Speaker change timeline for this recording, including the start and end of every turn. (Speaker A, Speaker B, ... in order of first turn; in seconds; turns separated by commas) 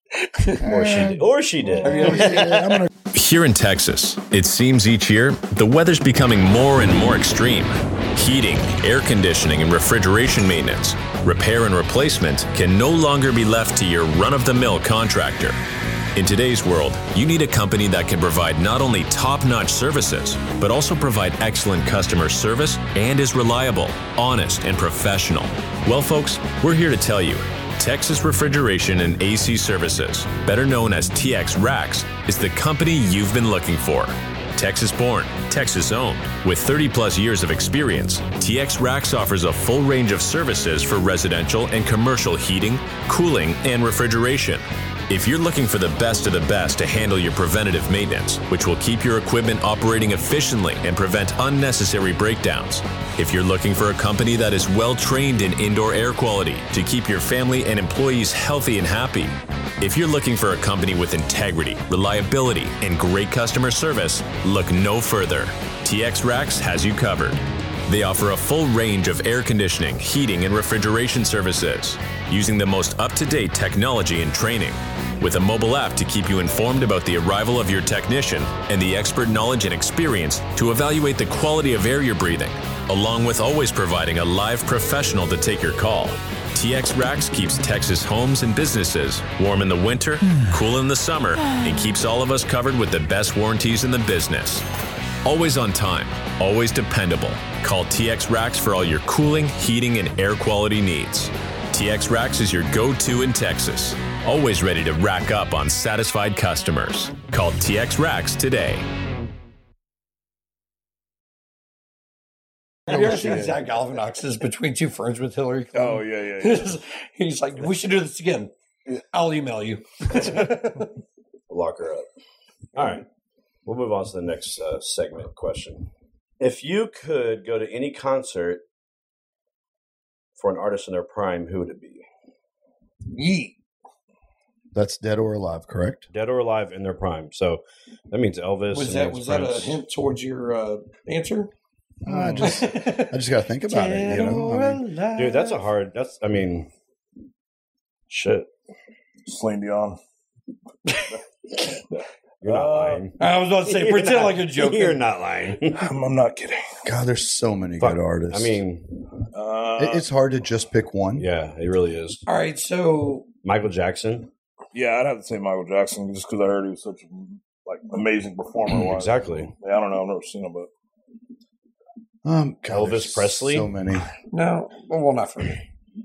Speaker A: 0.3-0.6, Speaker B: 0.6-2.9, Speaker C: 0.6-2.5, Speaker A: 1.8-2.6, Speaker D: 3.1-15.6, Speaker D: 16.1-94.7, Speaker D: 95.2-108.8, Speaker A: 112.9-118.5, Speaker E: 112.9-113.6, Speaker E: 115.7-116.7, Speaker A: 119.1-120.9, Speaker C: 121.5-122.1, Speaker C: 122.8-123.0, Speaker C: 123.7-128.6, Speaker C: 130.4-132.1, Speaker A: 133.1-133.6, Speaker B: 134.7-136.1, Speaker C: 136.1-139.8, Speaker A: 138.7-141.5, Speaker B: 142.0-144.8, Speaker E: 142.1-142.5, Speaker A: 142.4-143.2, Speaker A: 143.7-145.7, Speaker C: 145.2-146.7, Speaker C: 148.1-148.5, Speaker E: 149.3-150.0, Speaker E: 151.9-153.0, Speaker C: 152.4-155.9, Speaker A: 153.2-155.0, Speaker E: 155.7-156.8, Speaker B: 156.8-158.6, Speaker C: 157.8-159.1, Speaker E: 159.3-160.1, Speaker B: 159.8-161.3, Speaker C: 161.2-162.2, Speaker A: 162.3-163.3, Speaker C: 163.4-164.3, Speaker E: 164.7-170.7, Speaker C: 168.8-169.5, Speaker B: 172.2-174.1, Speaker C: 172.7-173.7, Speaker A: 174.3-175.6